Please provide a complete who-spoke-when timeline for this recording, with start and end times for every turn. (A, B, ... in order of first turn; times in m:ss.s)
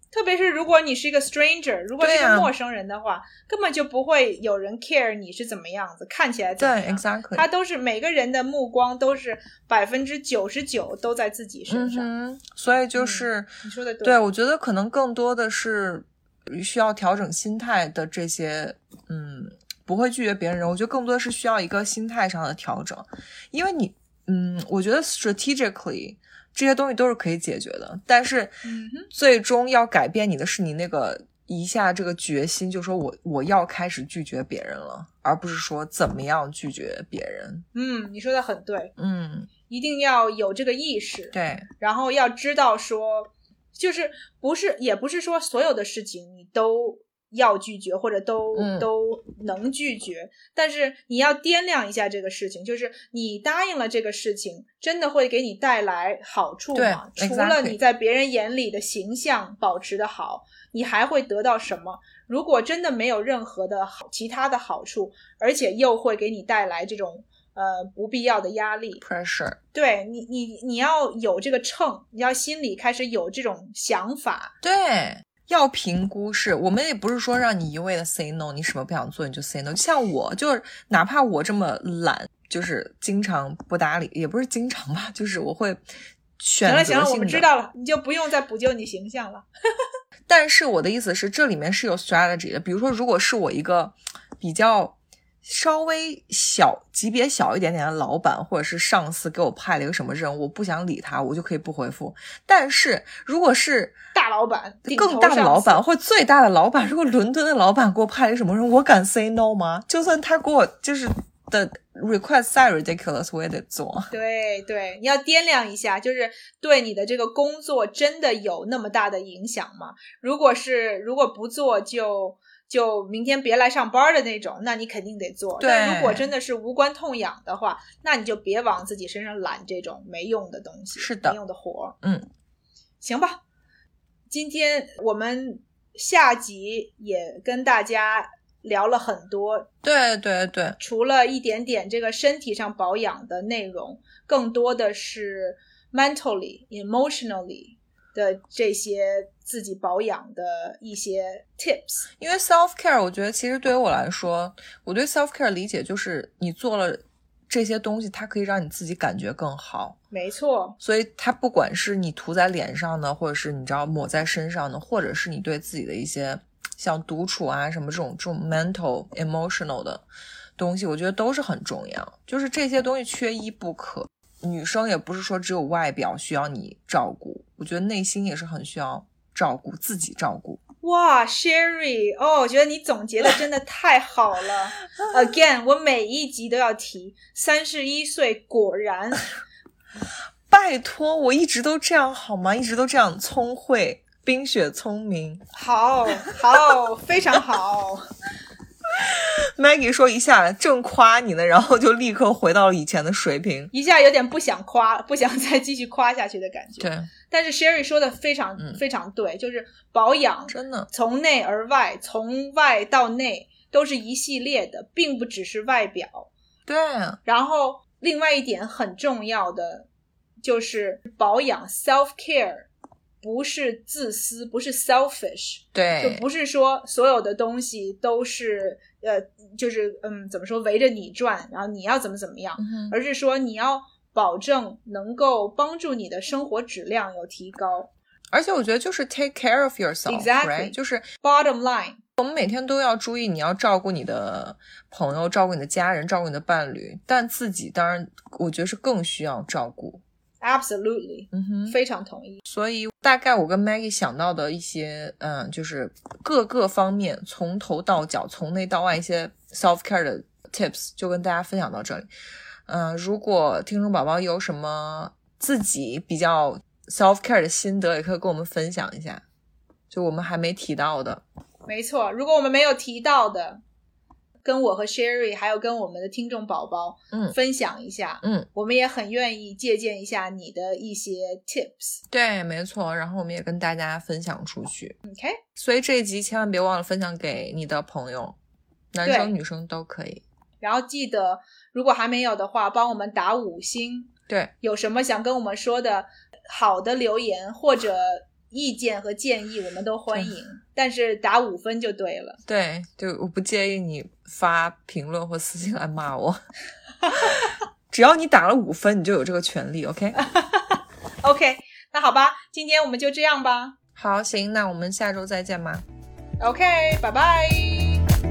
0:00.1-0:12.1 A
0:02.0-0:02.5 B
0:06.6-0:07.5 B
0:11.7-0:13.5 B
0:13.0-0:14.2 A
0:14.0-0:37.6 B
0:28.6-0:29.1 A
0:37.7-0:38.9 A
0:39.0-0:39.5 B
0:39.7-1:09.0 A
0:41.3-0:41.7 B
0:48.6-0:48.9 B
0:56.8-0:57.8 B
1:09.0-1:09.6 B
1:09.7-1:14.6 A
1:14.6-1:25.8 B
1:26.4-1:27.5 B
1:26.6-1:29.5 A
1:30.3-1:44.0 B
1:44.1-1:45.8 A
1:44.9-1:54.1 B
1:54.1-2:12.0 A
2:05.6-2:06.3 B
2:11.0-2:11.4 B
2:12.0-2:12.3 B
2:13.0-2:13.4 A
2:14.3-2:19.7 A
2:19.8-2:20.8 B
2:20.8-2:32.1 A
2:32.2-2:40.0 B
2:40.1-2:40.8 A
2:40.8-2:50.0 B
2:50.6-3:00.6 B
3:00.8-3:09.3 A
3:10.5-3:15.4 B
3:15.5-3:18.1 A
3:19.1-3:23.7 B
3:23.7-3:36.3 A
3:26.8-3:27.1 B
3:30.5-3:30.9 B
3:36.7-3:37.2 B
3:37.3-3:39.9 A
3:40.4-3:42.7 A
3:43.2-3:57.9 A
3:45.7-3:46.2 B
3:52.6-3:53.0 B
3:58.3-4:01.1 B
4:00.1-4:02.0 A
4:02.2-4:10.0 B
4:10.4-4:12.4 A
4:11.3-4:11.8 B
4:12.4-4:22.1 B
4:22.7-4:29.2 B
4:29.9-4:31.2 B
4:31.7-4:33.6 A
4:34.4-4:42.0 A
4:42.1-4:45.0 B
4:45.1-4:45.4 A
4:45.6-4:48.4 B
4:48.9-4:50.2 B
4:49.0-4:49.3 A
4:50.6-4:54.1 A
4:54.6-5:02.4 A
5:02.5-5:06.4 B
5:07.0-5:07.5 A
5:07.2-5:10.2 B
5:10.2-5:13.8 A
5:14.0-5:15.8 B
5:16.4-5:18.0 A